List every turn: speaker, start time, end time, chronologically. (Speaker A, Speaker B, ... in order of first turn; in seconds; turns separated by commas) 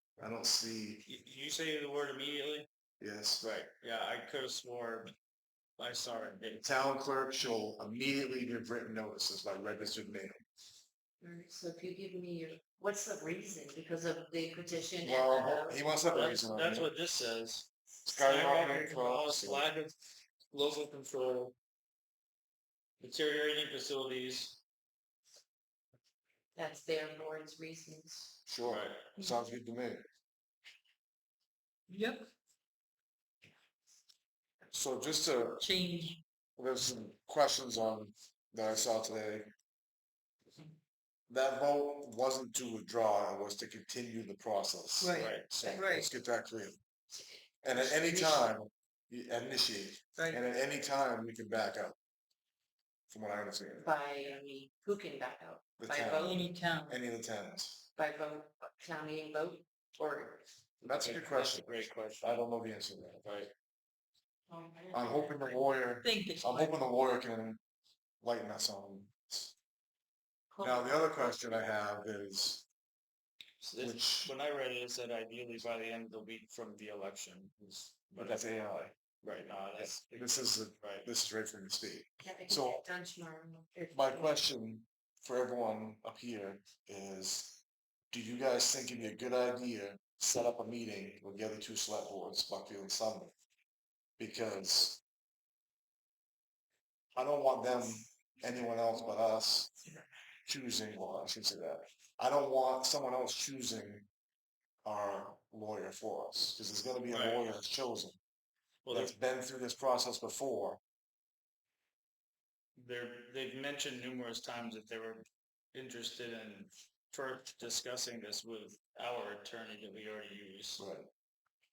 Speaker A: 0.2-1.0, Speaker B: 1.0-2.7, Speaker A: 3.0-3.5, Speaker B: 3.4-5.1, Speaker B: 5.8-6.6, Speaker A: 6.6-10.4, Speaker C: 11.2-15.8, Speaker A: 15.0-16.9, Speaker B: 16.1-19.9, Speaker A: 18.0-19.7, Speaker B: 20.5-21.5, Speaker B: 23.0-24.6, Speaker C: 26.5-28.4, Speaker A: 28.5-30.0, Speaker B: 28.6-29.1, Speaker D: 31.9-32.3, Speaker A: 34.7-35.7, Speaker D: 35.6-36.2, Speaker A: 36.6-39.5, Speaker A: 41.3-46.8, Speaker D: 45.0-46.1, Speaker B: 45.1-45.6, Speaker C: 47.1-48.5, Speaker A: 47.6-52.0, Speaker B: 50.2-50.5, Speaker A: 53.1-53.9, Speaker C: 53.8-56.5, Speaker A: 55.8-57.9, Speaker D: 56.1-57.0, Speaker C: 57.9-60.4, Speaker A: 60.8-61.7, Speaker B: 60.9-62.5, Speaker A: 62.2-63.2, Speaker B: 63.2-63.5, Speaker C: 64.5-65.7, Speaker A: 64.9-67.6, Speaker D: 66.0-66.8, Speaker A: 68.2-69.5, Speaker C: 70.5-71.0, Speaker A: 70.6-72.7, Speaker B: 73.6-78.4, Speaker A: 73.8-74.3, Speaker A: 78.2-78.9, Speaker B: 79.2-81.1, Speaker A: 79.8-82.8, Speaker C: 82.2-84.4, Speaker A: 83.9-93.3, Speaker A: 94.2-95.0, Speaker A: 97.1-99.7, Speaker A: 100.5-104.1, Speaker A: 104.8-108.2, Speaker B: 107.1-107.5, Speaker B: 108.8-109.1, Speaker A: 108.9-110.8, Speaker B: 112.8-120.8, Speaker A: 120.8-121.1